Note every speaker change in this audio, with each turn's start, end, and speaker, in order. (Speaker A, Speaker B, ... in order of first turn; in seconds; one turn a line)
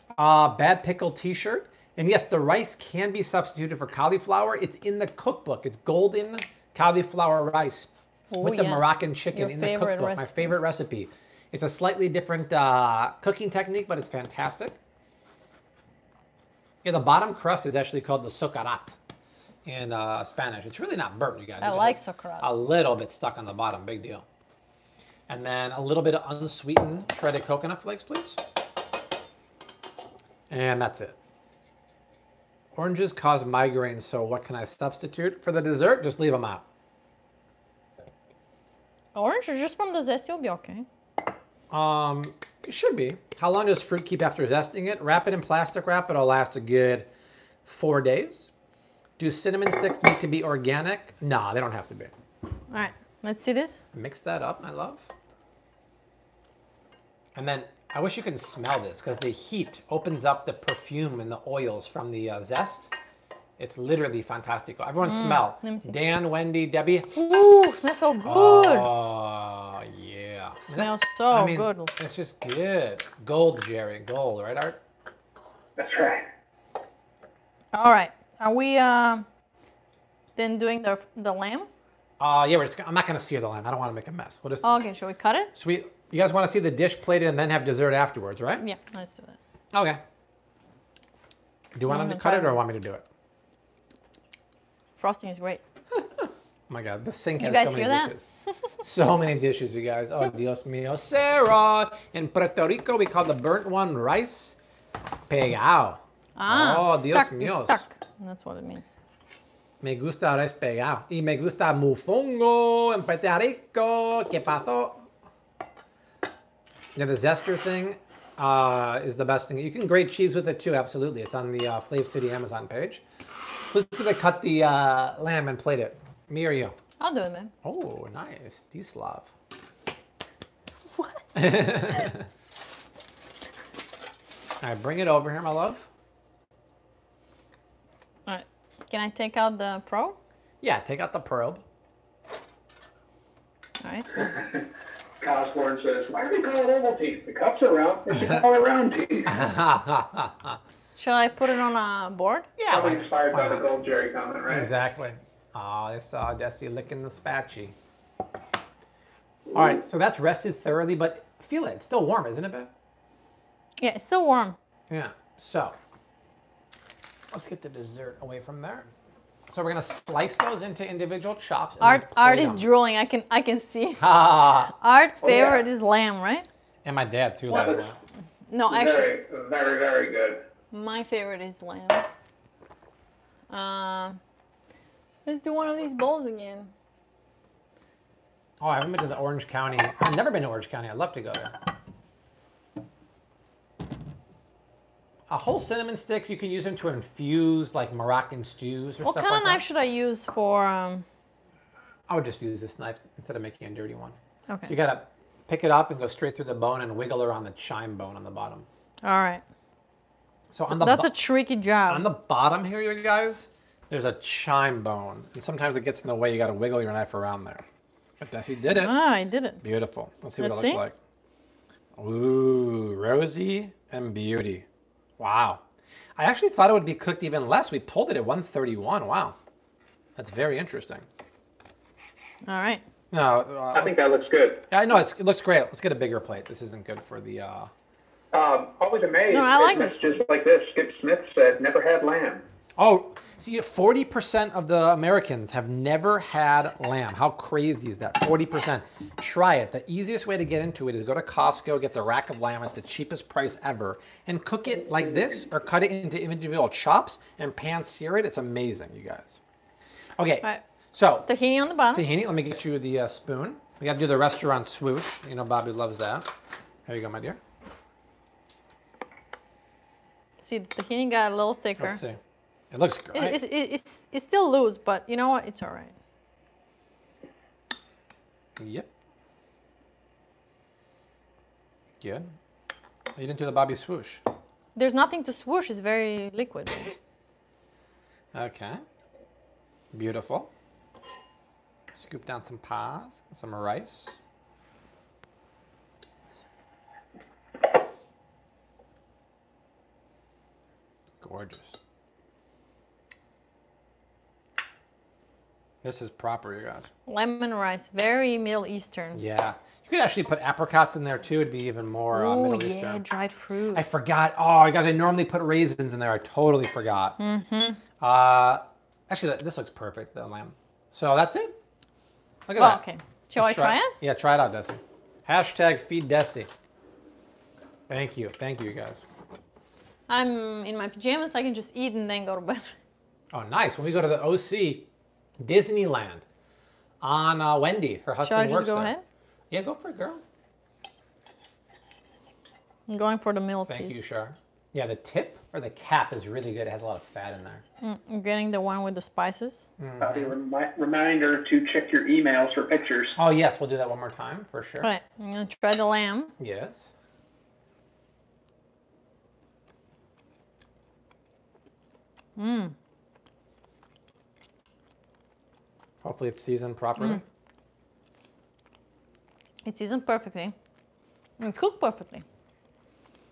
Speaker A: 0.2-14.8
Speaker B: 8.3-10.6
Speaker A: 16.8-18.9
Speaker A: 19.6-24.2
Speaker B: 21.6-22.5
Speaker A: 25.3-28.4
Speaker A: 30.5-31.2
Speaker A: 32.7-36.6
Speaker B: 39.1-40.9
Speaker A: 41.7-47.1
Speaker A: 47.6-48.5
Speaker A: 49.2-52.1
Speaker B: 52.7-53.8
Speaker A: 53.9-55.1
Speaker A: 57.3-62.9
Speaker A: 63.6-67.1
Speaker B: 65.0-65.9
Speaker B: 67.1-68.9
Speaker A: 68.2-74.8
Speaker B: 70.7-71.9
Speaker C: 75.8-76.3
Speaker B: 77.7-79.2
Speaker B: 80.3-81.7
Speaker A: 82.2-84.8
Speaker B: 84.6-85.5
Speaker A: 85.5-88.6
Speaker B: 88.6-89.4
Speaker A: 89.7-90.0
Speaker A: 91.7-93.0
Speaker B: 91.9-92.6
Speaker B: 95.0-95.6
Speaker A: 95.9-98.2
Speaker B: 97.4-98.1
Speaker A: 98.8-104.6
Speaker A: 105.3-107.8
Speaker B: 106.3-108.9
Speaker A: 109.8-115.0
Speaker A: 117.0-123.0
Speaker A: 123.7-126.7
Speaker B: 127.0-127.5
Speaker A: 127.6-129.3
Speaker B: 130.9-131.2
Speaker A: 131.3-132.3
Speaker A: 134.6-135.9
Speaker B: 138.3-140.2
Speaker A: 140.6-141.6
Speaker B: 143.8-144.3
Speaker C: 145.2-149.3
Speaker A: 149.3-150.6
Speaker B: 151.0-152.5
Speaker A: 152.6-153.7
Speaker C: 152.7-154.7
Speaker A: 154.5-157.7
Speaker A: 159.5-162.7
Speaker B: 163.8-164.6
Speaker A: 164.9-165.8
Speaker A: 167.3-168.9
Speaker A: 169.5-172.6
Speaker B: 171.8-174.1
Speaker A: 174.0-174.7
Speaker B: 174.7-176.5
Speaker C: 175.2-175.6
Speaker A: 176.8-178.0
Speaker B: 177.5-177.7
Speaker C: 177.5-177.8
Speaker B: 178.5-179.1
Speaker C: 178.7-180.4
Speaker B: 180.7-182.1
Speaker B: 183.5-184.2
Speaker B: 185.2-186.7
Speaker A: 188.6-191.5
Speaker A: 195.3-199.6
Speaker B: 199.0-201.1
Speaker A: 202.1-208.7
Speaker B: 204.5-204.7
Speaker B: 209.0-209.4
Speaker A: 210.5-211.1
Speaker B: 210.7-212.1
Speaker A: 211.9-217.6
Speaker A: 218.2-218.9
Speaker B: 218.7-219.6
Speaker A: 219.6-220.9
Speaker B: 220.4-220.8
Speaker A: 222.0-224.6
Speaker A: 225.2-225.6
Speaker A: 226.2-229.3
Speaker A: 230.2-231.1
Speaker B: 232.4-232.8
Speaker A: 233.1-233.9
Speaker C: 233.7-234.6
Speaker A: 234.7-237.7
Speaker C: 238.3-242.4
Speaker B: 239.3-240.2
Speaker A: 242.8-259.4
Speaker A: 260.2-261.3
Speaker B: 261.3-262.1
Speaker A: 261.9-266.3
Speaker A: 266.9-267.4
Speaker B: 270.4-272.0
Speaker A: 271.8-272.2
Speaker A: 272.7-273.4
Speaker B: 273.1-275.9
Speaker A: 278.6-278.9
Speaker A: 282.0-282.3
Speaker A: 283.2-284.2
Speaker B: 284.8-286.9
Speaker A: 288.3-288.8
Speaker A: 289.9-290.5
Speaker A: 291.9-294.2
Speaker A: 301.2-301.8
Speaker A: 305.8-306.9
Speaker B: 307.1-309.2
Speaker A: 309.1-313.1
Speaker B: 312.1-313.8
Speaker A: 313.7-317.2
Speaker B: 317.2-317.8
Speaker A: 318.0-321.5
Speaker A: 322.5-322.8
Speaker B: 322.6-323.9
Speaker A: 323.4-326.5
Speaker A: 327.9-329.0
Speaker B: 330.1-332.7
Speaker A: 333.3-334.9
Speaker A: 335.4-336.2
Speaker A: 337.0-338.9
Speaker B: 338.2-339.0
Speaker A: 339.5-340.2
Speaker B: 342.9-344.0
Speaker A: 343.7-347.6
Speaker B: 347.8-349.7
Speaker A: 349.8-350.4
Speaker C: 350.0-353.1
Speaker A: 353.1-354.9
Speaker B: 354.8-356.3
Speaker A: 356.4-356.9
Speaker B: 362.4-362.7
Speaker A: 366.0-367.2
Speaker B: 369.6-370.6
Speaker B: 371.4-372.2